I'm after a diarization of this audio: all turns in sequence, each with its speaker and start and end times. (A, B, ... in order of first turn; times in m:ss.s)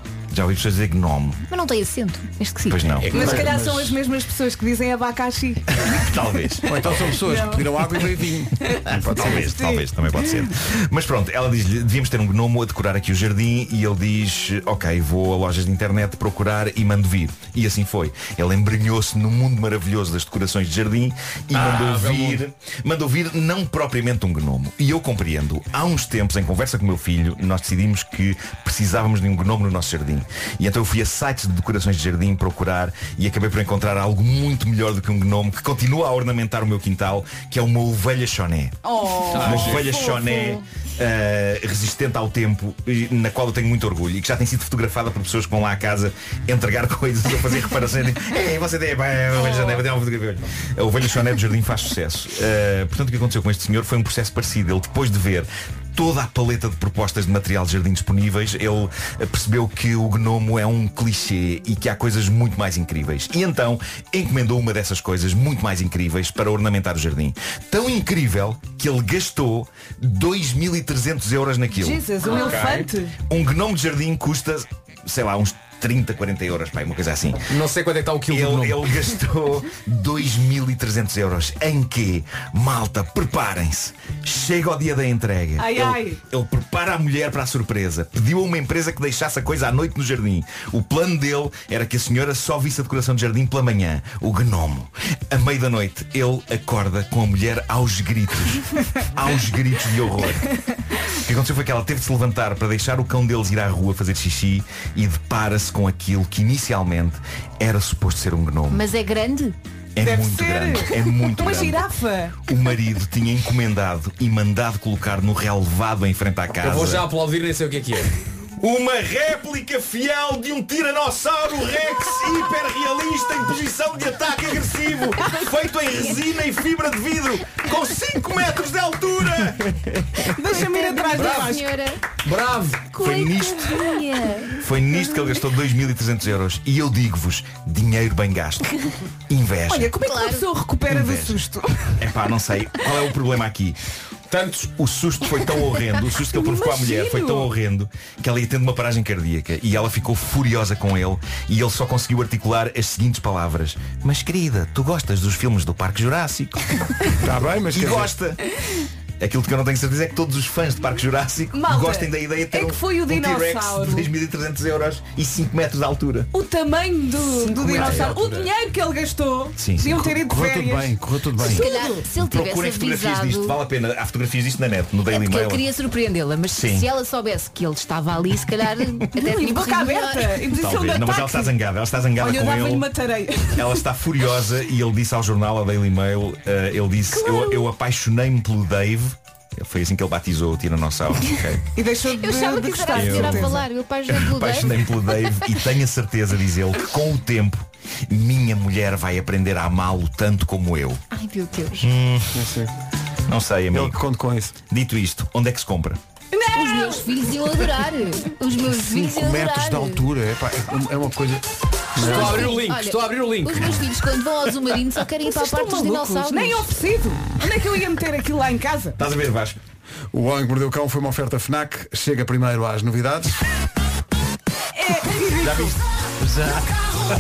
0:00.3-0:01.4 A
0:01.5-0:02.8 B
0:02.7-0:03.3 A
0:03.0-0:03.6 C
0:03.1-0:04.0 D
0:03.1-0:06.1 E
0:05.7-0:07.0 A
0:06.6-0:09.4 D
0:07.2-0:07.7 E
0:08.6-0:10.5 E
0:08.8-0:38.8 A
0:21.5-0:22.4 C
0:38.8-0:40.6 E
0:39.3-0:39.9 C
0:39.3-1:12.7 A
1:11.7-1:13.1 E
1:12.2-1:12.9 C
1:13.3-1:17.5 A
1:17.5-1:19.0 C
1:18.3-1:40.5 A
1:25.6-1:26.2 E
1:41.1-1:48.8 A
1:48.7-1:49.6 B
1:49.9-1:51.8 A
1:50.0-1:52.4 E
1:52.5-1:57.1 A
1:56.6-1:58.1 C
1:58.6-2:09.8 A
2:10.3-2:11.7 E
2:10.3-2:12.0 B
2:11.1-2:11.6 C
2:12.2-2:13.0 C
2:12.9-2:14.6 B
2:13.0-2:13.8 A
2:14.6-2:18.7 A
2:19.3-2:20.0 A
2:19.7-2:21.9 E
2:20.0-2:20.4 B
2:20.9-2:21.4 A
2:22.0-2:23.8 A
2:24.3-2:24.7 C
2:24.8-2:36.7 A
2:26.3-2:27.5 E
2:37.2-2:38.1 D
2:37.7-2:38.4 A
2:39.2-2:46.3 A
2:41.5-2:44.1 E
2:46.3-2:52.1 E
2:47.4-2:48.5 C
2:47.7-2:48.1 A
2:49.6-2:50.0 A
2:49.9-2:51.7 D
2:51.4-2:53.6 B
2:51.5-2:55.7 A
2:55.0-3:00.5 B
2:56.5-2:56.9 A
2:59.1-3:01.5 E
3:00.6-3:02.9 A
3:02.2-3:03.8 E
3:03.5-3:11.6 A
3:07.1-3:07.7 E
3:11.7-3:13.6 E
3:12.1-3:15.3 B
3:13.0-3:13.4 A
3:14.1-3:21.0 A
3:21.1-3:21.9 B
3:21.8-3:22.4 A
3:22.3-3:22.7 D
3:23.3-3:24.0 A
3:23.7-3:24.6 D
3:24.7-3:26.0 A
3:26.3-3:27.3 E
3:26.5-3:30.1 B
3:28.7-3:31.4 D
3:32.0-3:32.5 D
3:32.0-3:36.7 B
3:32.0-3:33.9 C
3:35.2-3:39.0 E
3:39.0-3:39.6 A
3:40.1-3:43.4 D
3:44.7-3:45.8 E
3:45.4-3:45.8 A
3:46.3-3:46.6 A